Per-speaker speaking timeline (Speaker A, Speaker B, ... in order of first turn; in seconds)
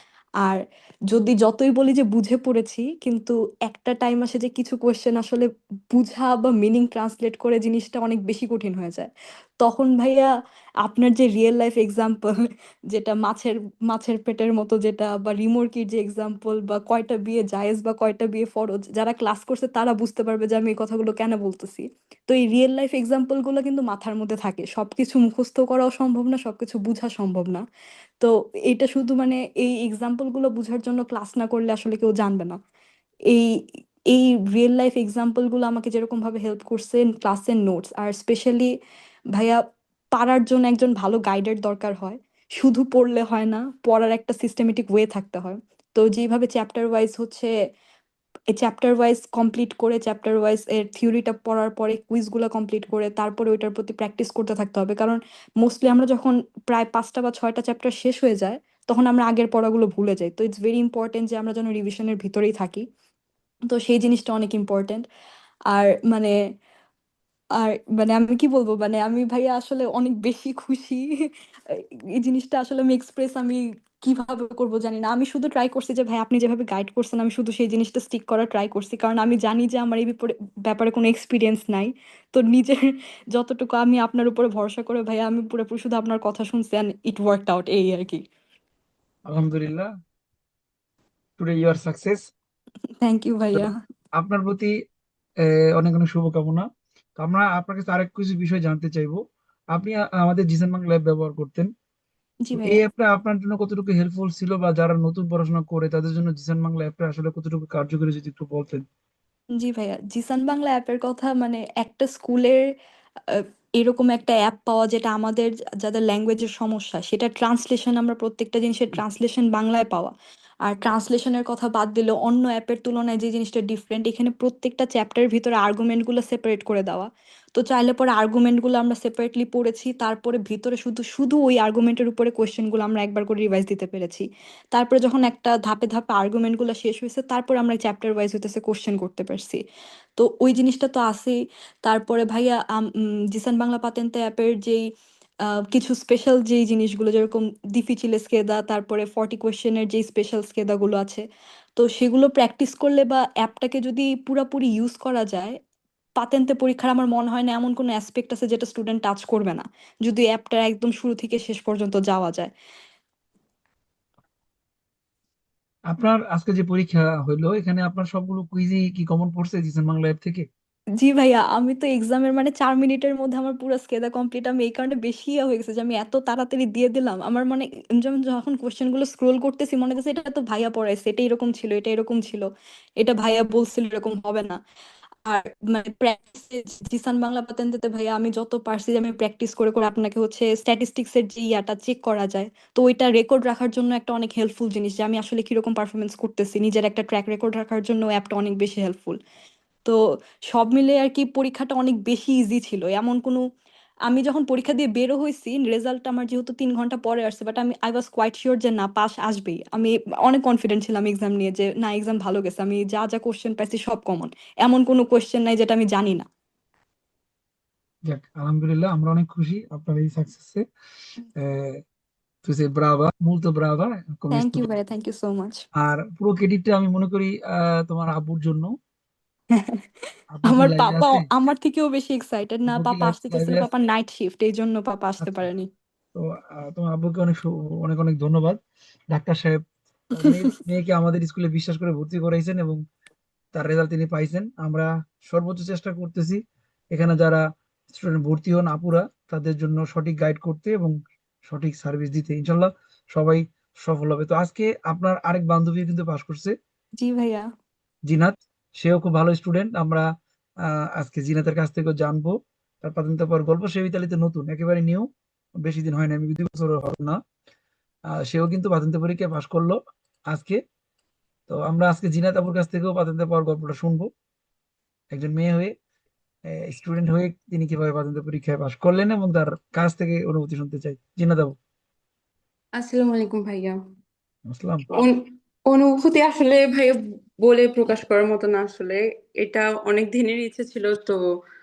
Speaker A: 0.4-9.1, 9.6-10.3, 10.8-12.3, 12.9-27.6, 28.2-32.6, 33.3-38.7, 39.4-39.6, 40.1-47.5, 48.5-62.9, 63.7-65.1, 65.7-66.3, 67.6-71.1, 71.7-82.8, 83.3-88.2, 93.0-93.8, 102.5-102.8, 109.6-112.6, 113.3-120.1, 120.6-139.6, 140.2-144.8, 145.7-151.2, 151.8-155.6, 156.2-162.5, 171.0-182.5, 183.0-184.6, 185.2-199.2, 199.8-203.4, 204.1-216.3, 224.3-225.6, 229.5-229.9, 230.4-235.7, 257.0-257.5
Speaker B: 89.3-89.9, 91.4-92.2, 94.2-94.7, 95.4-96.7, 97.2-99.2, 99.7-101.7, 102.6-108.8, 165.9-170.5, 218.1-220.6, 221.4-221.8, 222.4-224.7, 225.8-228.7, 230.3-231.2, 232.7-233.7, 236.2-238.6, 239.1-239.6, 240.1-242.8, 243.5-246.4, 246.9-247.4, 247.9-250.9, 251.5-256.6, 258.1-260.1, 260.7-262.3, 262.8-265.1, 265.6-267.2, 268.3-269.8, 270.3-270.6, 271.5-274.1, 275.1-275.7, 276.6-281.6, 284.5-285.0
Speaker C: 282.8-283.8, 284.9-291.2